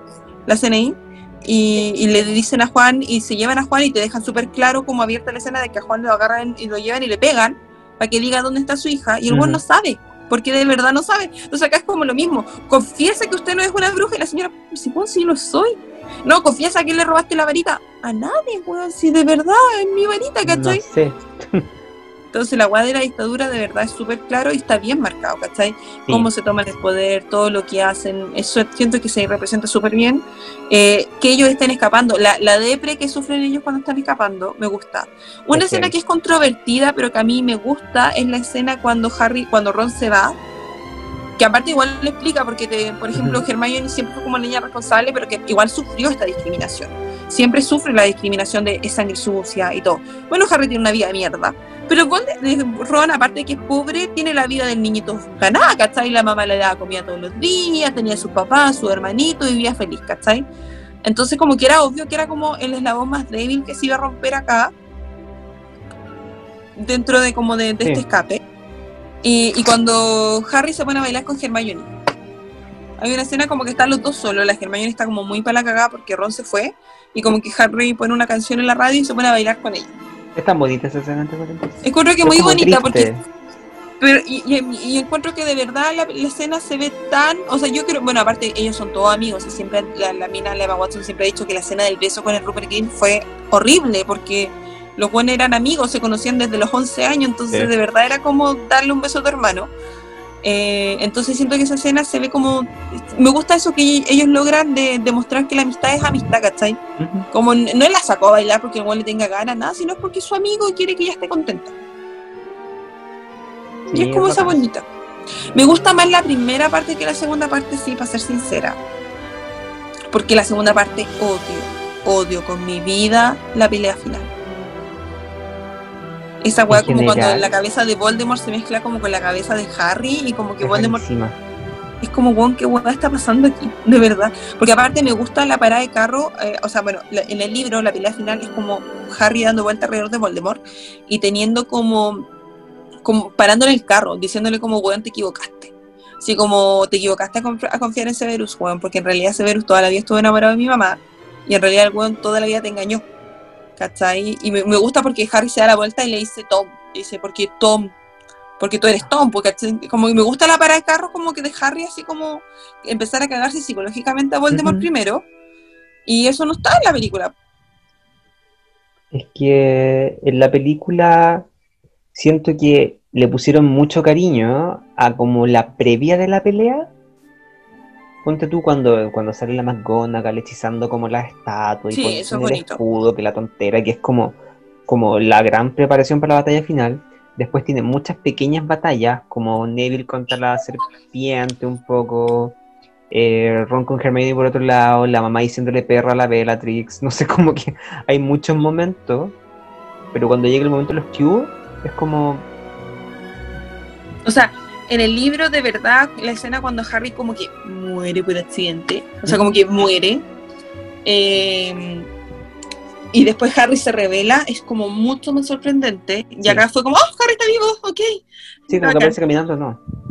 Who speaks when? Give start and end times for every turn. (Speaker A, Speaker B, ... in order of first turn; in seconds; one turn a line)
Speaker A: 0.5-20.8
Speaker B: 9.3-9.6
Speaker B: 20.4-21.7
Speaker A: 22.3-40.4
Speaker B: 35.5-35.9
Speaker A: 41.4-60.5
Speaker B: 43.1-43.4
Speaker A: 61.0-64.7
Speaker A: 66.8-68.5
Speaker A: 69.2-71.9
Speaker A: 73.0-79.9
Speaker B: 80.3-83.2
Speaker A: 81.8-83.2
Speaker A: 84.0-99.7
Speaker A: 100.4-106.8
Speaker B: 107.0-107.3
Speaker A: 107.3-111.7
Speaker B: 113.9-114.6
Speaker A: 113.9-114.9
Speaker A: 115.5-118.8
Speaker A: 120.1-124.3
Speaker A: 126.4-131.0
Speaker B: 126.7-127.5
Speaker B: 130.6-131.4
Speaker A: 132.0-142.3
Speaker A: 143.1-153.0
Speaker A: 153.8-157.9
Speaker A: 158.6-165.2
Speaker B: 164.5-164.9
Speaker A: 166.1-167.3
Speaker B: 169.1-171.5
Speaker B: 172.2-176.9
Speaker B: 178.2-192.6
Speaker A: 181.9-182.8
Speaker B: 193.1-199.4
Speaker B: 200.1-202.4
Speaker A: 204.3-210.2
Speaker A: 211.1-212.1
Speaker A: 213.1-219.2
Speaker B: 218.7-219.8